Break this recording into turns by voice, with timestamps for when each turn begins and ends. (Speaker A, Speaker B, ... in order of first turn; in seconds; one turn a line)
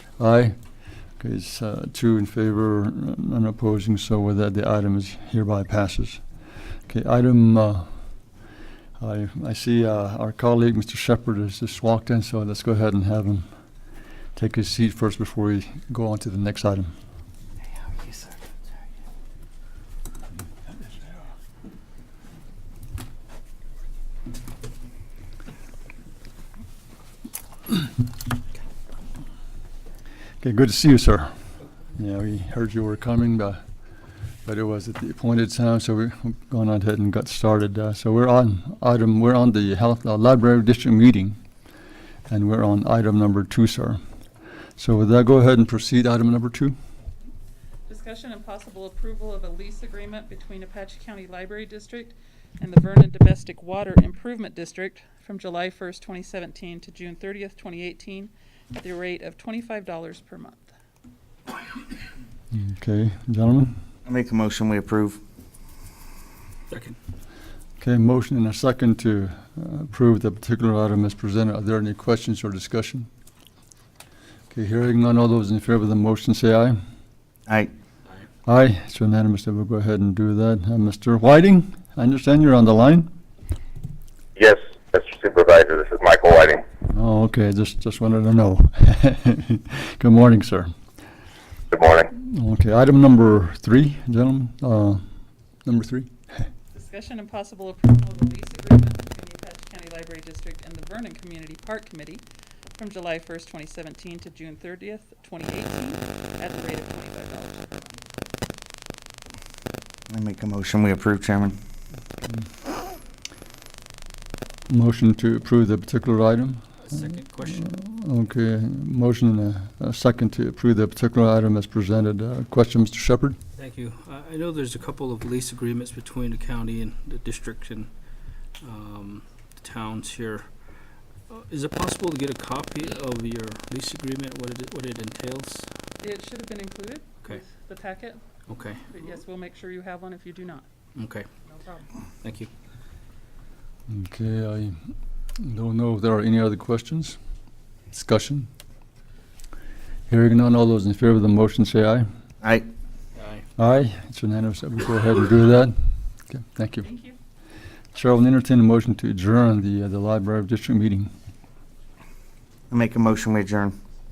Speaker A: 0.2-0.6
Speaker A: 1.2-6.2
Speaker A: 6.9-7.9
Speaker A: 9.0-13.5
Speaker A: 14.4-16.9
Speaker B: 18.0-18.4
Speaker A: 30.4-31.3
Speaker A: 31.9-33.6
Speaker A: 34.5-41.4
Speaker A: 42.3-44.0
Speaker A: 44.8-46.8
Speaker C: 47.9-60.7
Speaker A: 62.5-63.8
Speaker B: 64.1-65.2
Speaker D: 66.7-67.0
Speaker A: 67.8-73.1
Speaker A: 74.5-76.8
Speaker A: 78.5-83.1
Speaker E: 84.4-86.6
Speaker A: 86.9-90.7
Speaker E: 91.7-92.1
Speaker A: 92.1-95.0
Speaker A: 95.7-96.1
Speaker C: 96.7-102.2
Speaker C: 102.8-107.7
Speaker B: 110.1-111.6
Speaker A: 114.7-116.6
Speaker D: 116.9-117.7
Speaker A: 117.5-123.4
Speaker D: 123.6-127.9
Speaker D: 128.6-130.4
Speaker D: 131.3-135.7
Speaker C: 136.0-138.2
Speaker D: 138.5-138.8
Speaker C: 138.8-140.7
Speaker D: 141.0-141.3
Speaker C: 141.5-141.9
Speaker D: 142.2-142.5
Speaker A: 143.9-144.8
Speaker A: 145.4-147.2
Speaker A: 147.9-148.5
Speaker A: 150.1-152.1
Speaker D: 153.2-153.4
Speaker A: 153.6-155.8
Speaker A: 156.3-156.9
Speaker C: 156.8-157.2
Speaker A: 157.9-161.1
Speaker B: 162.7-163.8